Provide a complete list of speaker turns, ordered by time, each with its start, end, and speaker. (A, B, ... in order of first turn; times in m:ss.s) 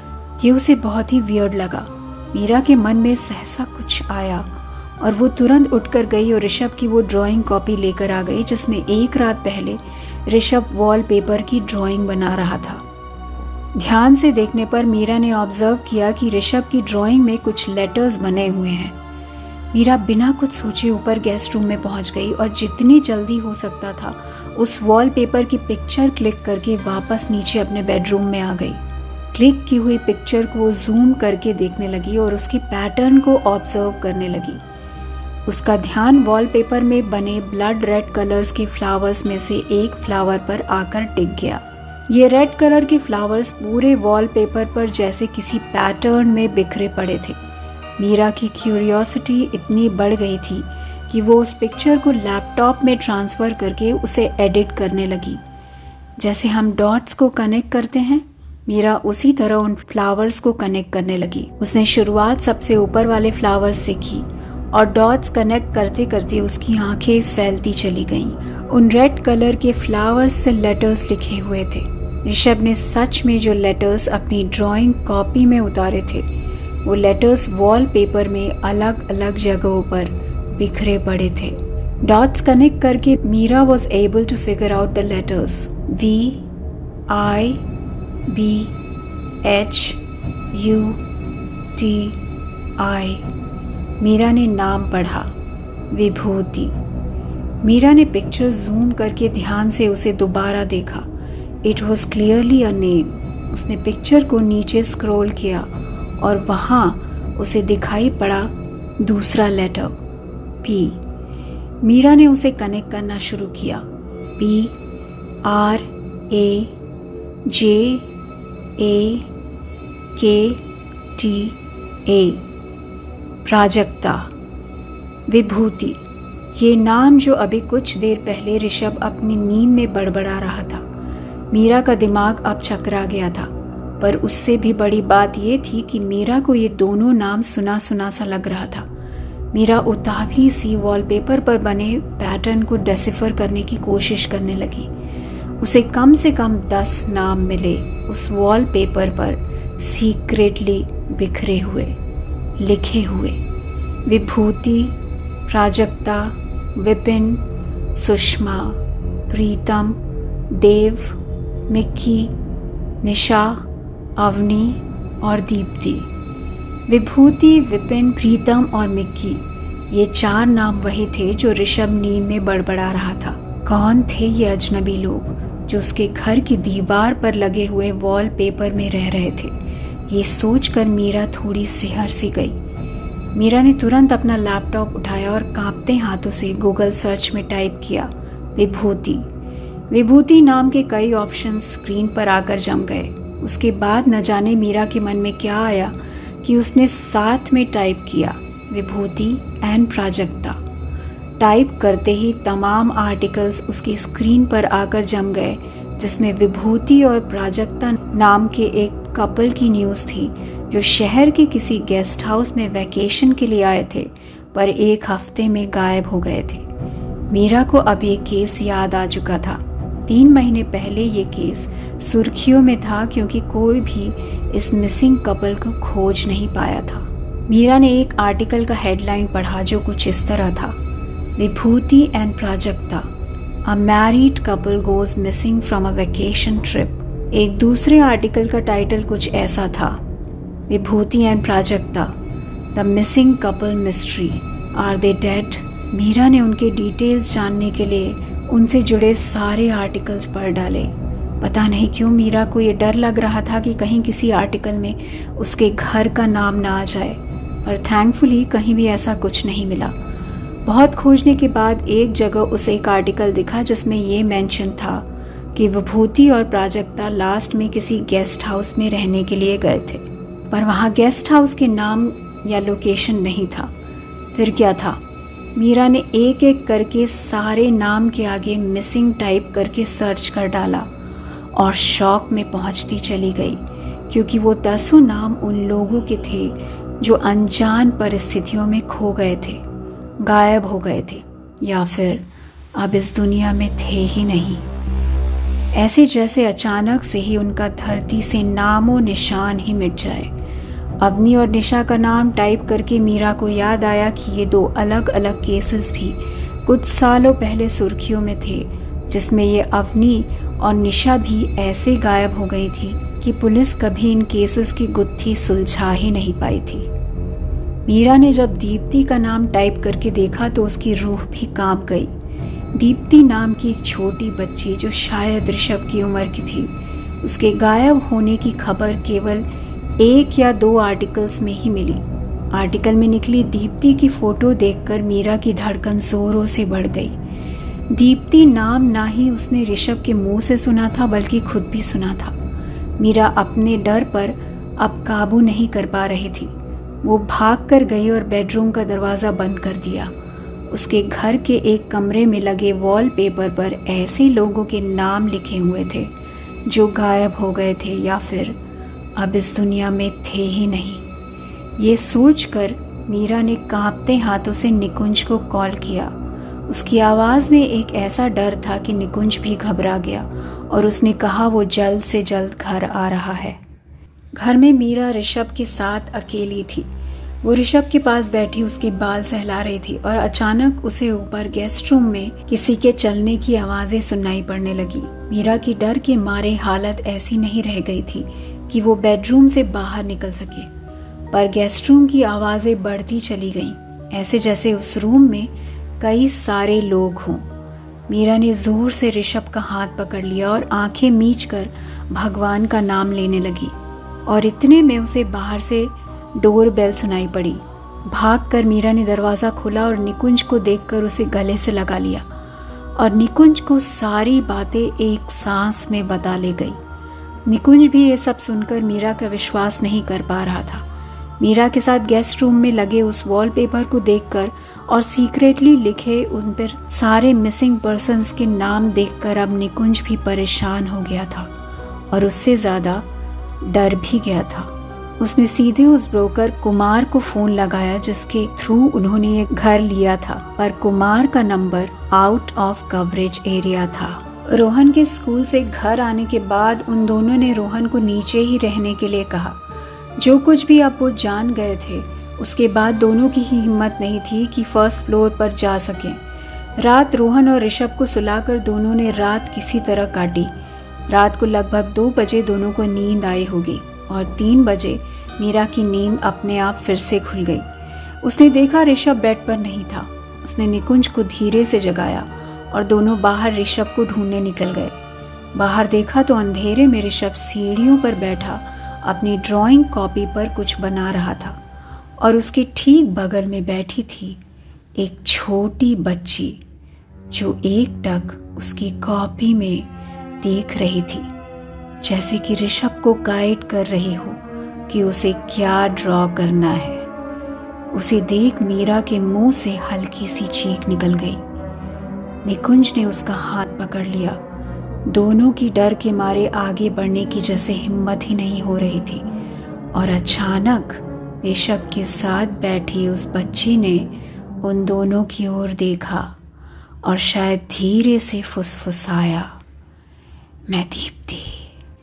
0:00.4-0:04.5 A
0:05.0-0:12.8 A
0:13.8-0:19.0 A
0:19.7-0:28.8 A
0:29.3-0:34.6 A
0:35.4-0:47.4 A
0:48.0-0:55.4 A
0:56.2-1:16.3 A
1:16.8-1:26.5 A
1:27.1-1:27.6 A
1:28.3-1:28.7 A
1:29.4-1:30.0 A
1:30.5-1:31.0 A
1:31.7-1:32.2 A
1:32.8-1:33.3 A
1:34.0-1:35.3 A
1:35.9-1:36.8 A
1:37.6-1:41.1 A
1:41.6-1:45.7 A
1:46.2-1:50.0 A
1:50.6-1:51.0 A
1:51.8-1:53.8 A
1:54.4-1:54.7 A
1:55.4-1:56.7 A
1:57.4-1:58.1 A
1:58.8-1:59.3 A
2:00.2-2:00.6 A
2:01.2-2:02.4 A
2:03.4-2:04.3 A
2:05.3-2:06.0 A
2:06.5-2:10.8 A
2:11.5-2:18.9 A
2:19.5-2:24.9 A
2:25.6-2:31.9 A
2:32.6-2:33.4 A
2:34.0-2:34.9 A
2:35.5-2:37.4 A
2:38.0-2:40.0 A
2:40.5-2:41.2 A
2:41.7-2:42.3 A
2:43.0-2:43.6 A
2:44.2-2:46.1 A
2:46.9-2:59.6 A
3:00.1-3:02.6 A
3:03.3-3:09.2 A
3:09.9-3:20.6 A
3:21.4-3:36.6 A
3:37.3-3:50.8 A
3:51.4-3:53.1 A
3:53.6-4:00.0 A
4:00.7-4:02.1 A
4:02.7-4:19.9 A
4:20.6-4:33.7 A
4:34.3-4:35.0 A
4:35.6-4:40.9 A
4:41.5-4:49.6 A
4:50.2-4:54.7 A
4:55.7-5:00.3 A
5:01.0-5:16.9 A
5:17.8-5:22.1 A
5:22.7-5:29.4 A
5:30.0-5:37.2 A
5:37.9-5:42.4 A
5:43.0-5:50.1 A
5:50.7-5:56.1 A
5:56.6-5:58.6 A
5:59.2-6:01.0 A
6:01.8-6:06.1 A
6:06.7-6:13.6 A
6:14.4-6:16.9 A
6:17.4-6:30.7 A
6:31.3-6:37.5 A
6:38.1-6:43.7 A
6:44.3-6:52.3 A
6:53.0-6:56.8 A
6:57.5-7:00.8 A
7:01.4-7:11.5 A
7:12.1-7:13.0 A
7:13.6-7:29.6 A
7:30.2-7:36.2 A
7:36.8-7:40.5 A
7:41.1-7:47.6 A
7:48.2-7:54.9 A
7:55.5-8:01.6 A
8:02.2-8:04.4 A
8:05.0-8:06.6 A
8:07.3-8:09.9 A
8:10.4-8:11.3 A
8:12.0-8:17.1 A
8:17.9-8:21.4 A
8:22.4-8:24.4 A
8:25.1-8:29.2 A
8:29.9-8:36.3 A
8:37.0-8:39.5 A
8:40.7-8:41.7 A